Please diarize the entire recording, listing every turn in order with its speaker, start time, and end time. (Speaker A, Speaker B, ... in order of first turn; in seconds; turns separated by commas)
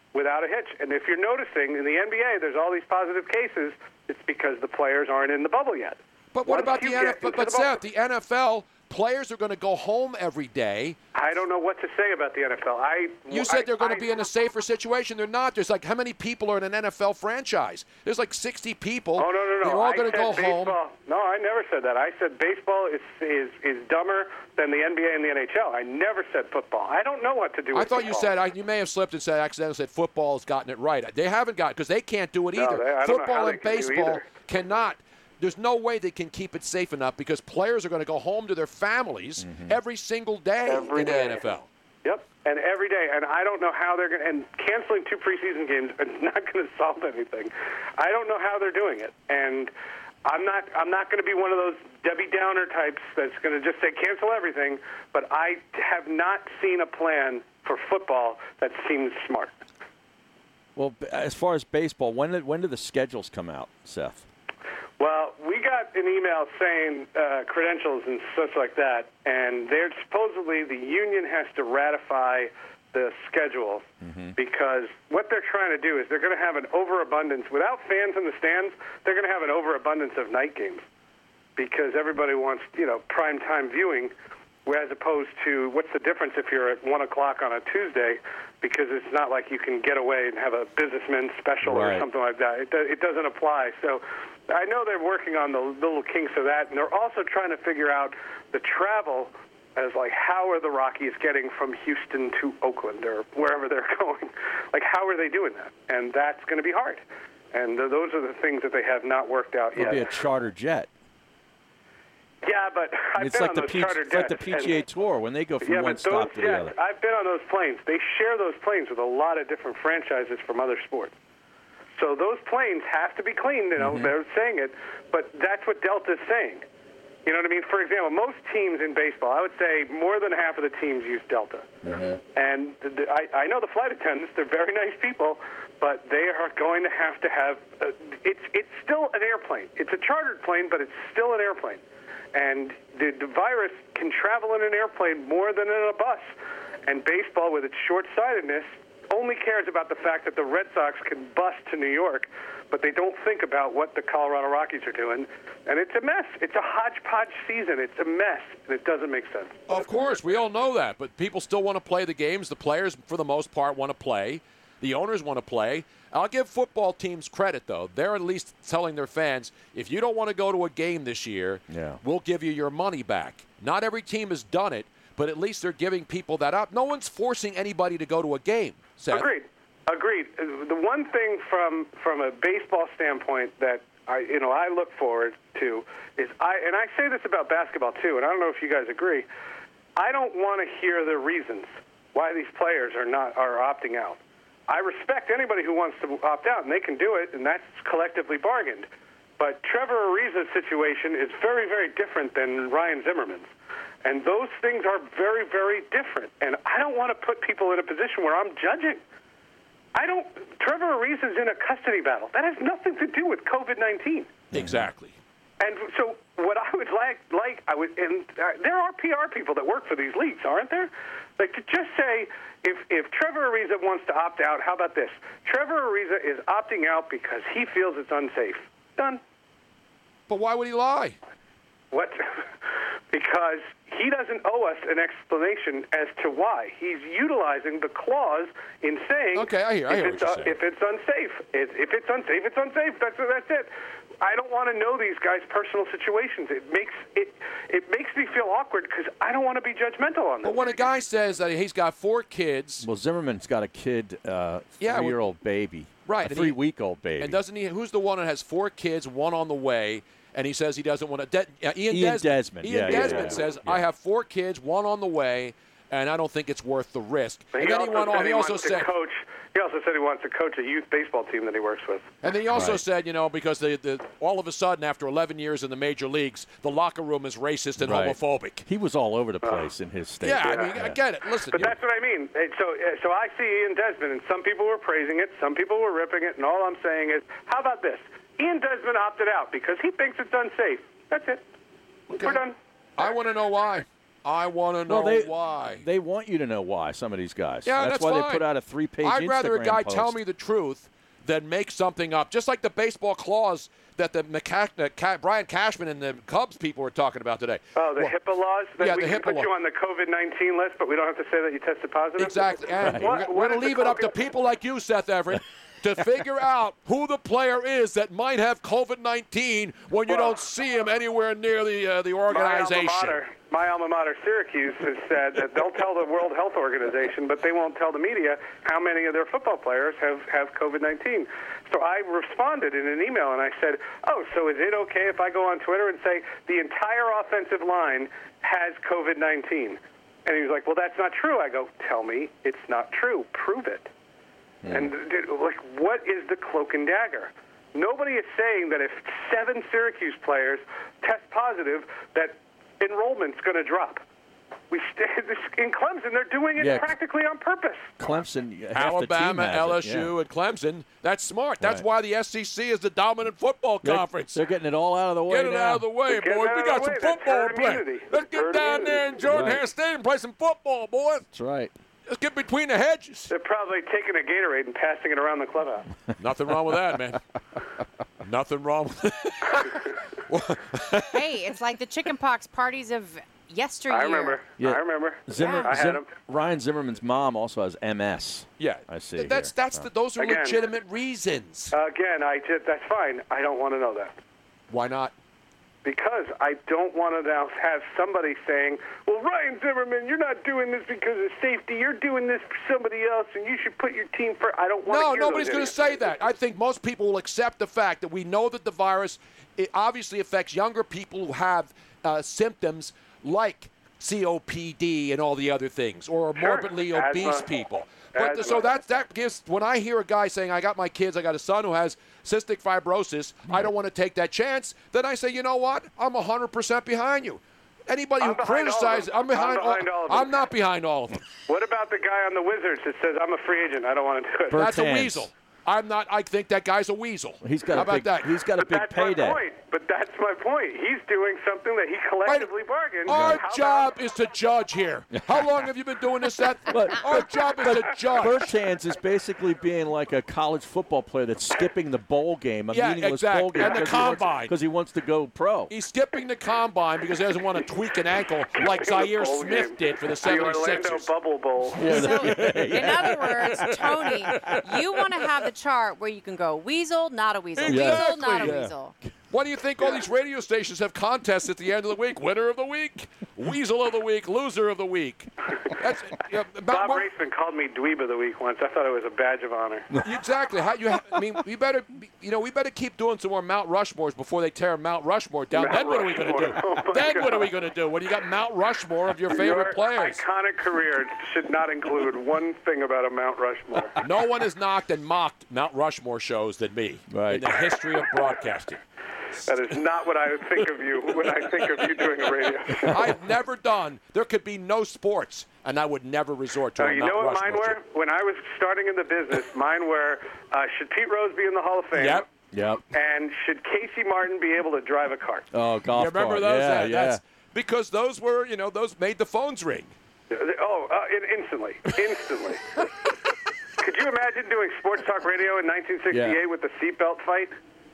Speaker A: 0.1-7.8, Speaker B: 6.3-11.0, Speaker A: 11.2-14.2, Speaker B: 13.3-20.8, Speaker A: 19.2-28.3, Speaker B: 27.7-41.7, Speaker A: 32.6-34.3, Speaker C: 39.4-39.8, Speaker A: 40.6-41.5, Speaker A: 42.0-49.7, Speaker A: 50.2-59.6, Speaker C: 60.8-64.2, Speaker A: 65.0-80.8, Speaker C: 74.0-74.4, Speaker A: 81.6-84.1, Speaker A: 84.7-110.1, Speaker C: 91.6-92.1, Speaker C: 109.8-110.9, Speaker A: 112.4-114.8, Speaker C: 113.2-116.8, Speaker A: 115.6-121.2, Speaker A: 122.0-126.7, Speaker C: 123.8-124.1, Speaker A: 127.2-131.7, Speaker C: 131.9-132.2, Speaker A: 132.3-141.8, Speaker A: 142.3-146.3, Speaker A: 146.9-159.9, Speaker B: 159.7-179.3, Speaker C: 171.7-172.0, Speaker A: 179.1-189.3, Speaker A: 190.0-198.9, Speaker A: 199.4-203.5, Speaker A: 204.0-209.0, Speaker A: 209.9-214.3, Speaker B: 214.5-215.2, Speaker C: 214.6-214.8, Speaker A: 215.6-229.2, Speaker B: 230.3-231.2, Speaker A: 231.9-232.4, Speaker A: 233.1-243.7, Speaker B: 239.3-240.6, Speaker A: 244.2-250.9, Speaker B: 250.4-252.9, Speaker C: 252.8-257.4, Speaker B: 254.8-255.2, Speaker B: 256.1-256.6, Speaker B: 257.2-268.9, Speaker C: 261.9-263.8, Speaker A: 267.5-272.1, Speaker B: 272.2-278.6, Speaker C: 272.5-272.8, Speaker C: 277.8-281.0, Speaker A: 279.4-279.7, Speaker B: 280.2-281.8, Speaker A: 280.4-280.7, Speaker A: 281.5-291.4, Speaker B: 292.1-292.4, Speaker A: 292.1-292.6, Speaker B: 293.0-295.8, Speaker C: 294.9-300.2, Speaker B: 297.7-298.4, Speaker B: 299.0-308.1, Speaker A: 307.8-314.2, Speaker B: 308.8-309.5, Speaker B: 312.2-323.2, Speaker A: 320.1-320.4, Speaker A: 322.3-343.9, Speaker C: 344.6-344.9, Speaker A: 344.7-354.0, Speaker A: 354.7-357.9, Speaker C: 356.6-356.9, Speaker C: 358.0-360.1, Speaker B: 358.8-364.4, Speaker C: 363.8-365.9, Speaker B: 365.3-371.3, Speaker A: 366.1-369.1, Speaker C: 369.3-369.6, Speaker C: 371.3-371.7, Speaker B: 372.1-373.3, Speaker A: 373.3-375.9, Speaker B: 376.2-377.2, Speaker B: 378.2-381.1, Speaker D: 381.1-384.4, Speaker A: 383.9-386.1, Speaker C: 384.6-389.9, Speaker D: 385.4-385.7, Speaker B: 388.6-391.8, Speaker A: 390.2-390.6, Speaker A: 391.7-394.2, Speaker B: 394.7-395.1, Speaker A: 395.8-406.1, Speaker B: 404.9-431.2, Speaker A: 416.4-417.5, Speaker A: 418.1-418.8, Speaker A: 428.2-430.5, Speaker A: 431.5-434.7, Speaker C: 434.5-435.3, Speaker B: 434.5-438.3, Speaker C: 437.4-439.4, Speaker A: 438.6-444.0, Speaker B: 442.2-442.5, Speaker B: 443.1-448.5, Speaker C: 443.1-443.4, Speaker C: 446.7-455.7, Speaker B: 452.7-454.5, Speaker B: 455.7-461.1, Speaker A: 458.6-461.9, Speaker C: 461.8-464.5, Speaker D: 461.9-468.9, Speaker B: 467.6-468.6, Speaker C: 467.6-468.7, Speaker B: 469.3-477.1, Speaker A: 476.7-479.9, Speaker B: 480.0-490.2, Speaker A: 485.5-487.5, Speaker A: 489.3-494.0, Speaker B: 494.0-498.8, Speaker C: 497.1-497.4, Speaker A: 499.4-503.1, Speaker B: 502.8-507.8, Speaker A: 506.8-512.3, Speaker B: 511.9-512.2, Speaker C: 512.5-512.8, Speaker A: 512.9-515.5, Speaker C: 515.5-517.2, Speaker B: 515.9-519.9, Speaker A: 520.3-522.6, Speaker A: 523.8-527.5, Speaker C: 526.1-526.4